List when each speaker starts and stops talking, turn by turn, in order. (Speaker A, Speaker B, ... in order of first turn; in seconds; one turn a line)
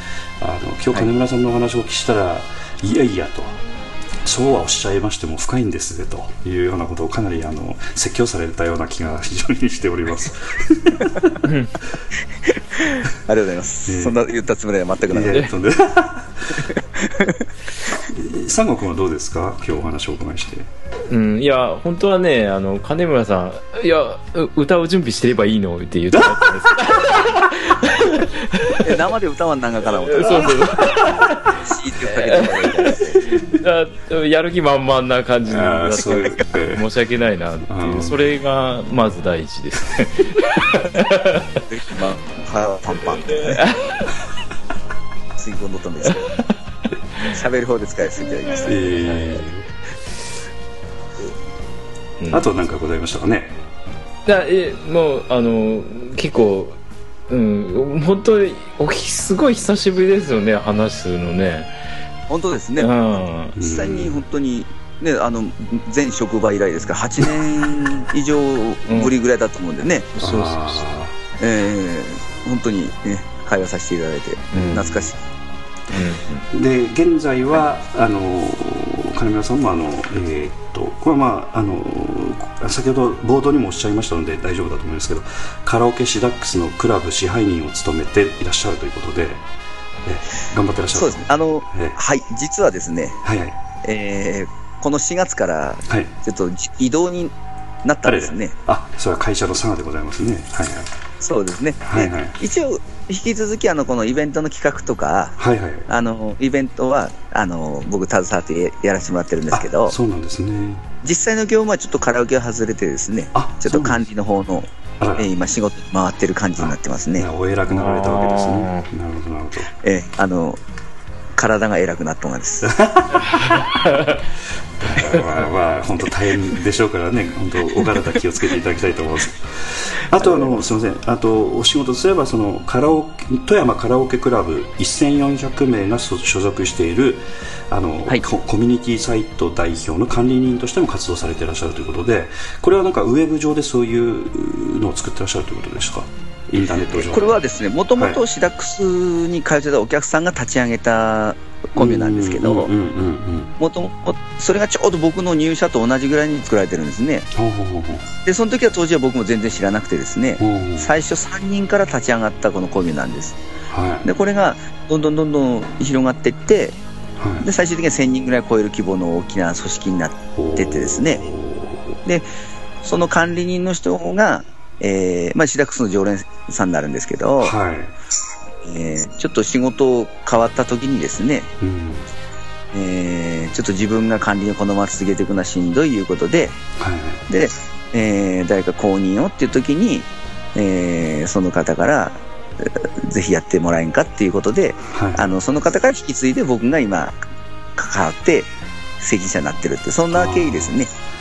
Speaker A: 0.4-3.6
Speaker A: 4.2-11.4
Speaker B: 11.4-11.7
Speaker C: 12.8-15.5
Speaker A: 13.9-14.2
Speaker A: 15.0-16.6
Speaker C: 17.0-17.4
Speaker A: 18.1-20.7
Speaker B: 21.1-29.0
Speaker A: 26.1-26.6
Speaker C: 28.8-30.9
Speaker B: 30.1-41.6
Speaker A: 30.3-30.6
Speaker C: 31.6-33.2
Speaker A: 35.5-36.9
Speaker A: 37.7-38.3
Speaker C: 41.7-43.6
Speaker B: 43.4-44.0
Speaker C: 45.4-46.4
Speaker C: 47.3-49.0
Speaker A: 48.5-49.6
Speaker B: 49.0-49.4
Speaker A: 52.3-53.6
Speaker B: 54.3-61.7
Speaker C: 62.3-63.0
Speaker B: 62.8-63.6
Speaker A: 63.6-64.2
Speaker C: 63.6-70.1
Speaker B: 70.2-70.8
Speaker A: 70.2-71.1
Speaker C: 71.4-75.2
Speaker B: 74.5-75.1
Speaker B: 75.9-76.5
Speaker A: 76.5-89.4
Speaker A: 90.0-92.0
Speaker C: 91.0-93.2
Speaker A: 93.2-93.5
Speaker C: 93.8-97.3
Speaker C: 97.8-98.5
Speaker A: 98.0-100.9
Speaker C: 101.2-105.4
Speaker A: 101.9-102.4
Speaker A: 105.4-105.9
Speaker C: 105.9-110.0
Speaker A: 109.5-110.8
Speaker C: 111.0-117.3
Speaker A: 113.3-114.0
Speaker A: 115.0-115.3
Speaker A: 116.6-119.7
Speaker B: 117.7-118.9
Speaker C: 119.8-120.6
Speaker C: 121.4-122.7
Speaker A: 122.6-123.8
Speaker B: 123.9-124.2
Speaker A: 124.8-147.4
Speaker C: 130.2-130.6
Speaker C: 146.8-152.7
Speaker A: 148.0-148.2
Speaker A: 151.8-153.5
Speaker C: 153.6-157.3
Speaker A: 157.3-158.1
Speaker C: 158.2-163.4
Speaker A: 160.4-160.9
Speaker A: 163.7-164.1
Speaker C: 164.1-166.8
Speaker A: 167.2-167.5
Speaker C: 167.4-171.2
Speaker A: 170.4-172.0
Speaker C: 172.8-177.5
Speaker A: 177.4-177.9
Speaker C: 178.6-181.5
Speaker A: 181.6-182.1
Speaker C: 182.7-186.6
Speaker A: 186.8-187.2
Speaker C: 187.3-197.2
Speaker A: 194.9-195.3
Speaker C: 197.8-200.9
Speaker A: 200.1-200.7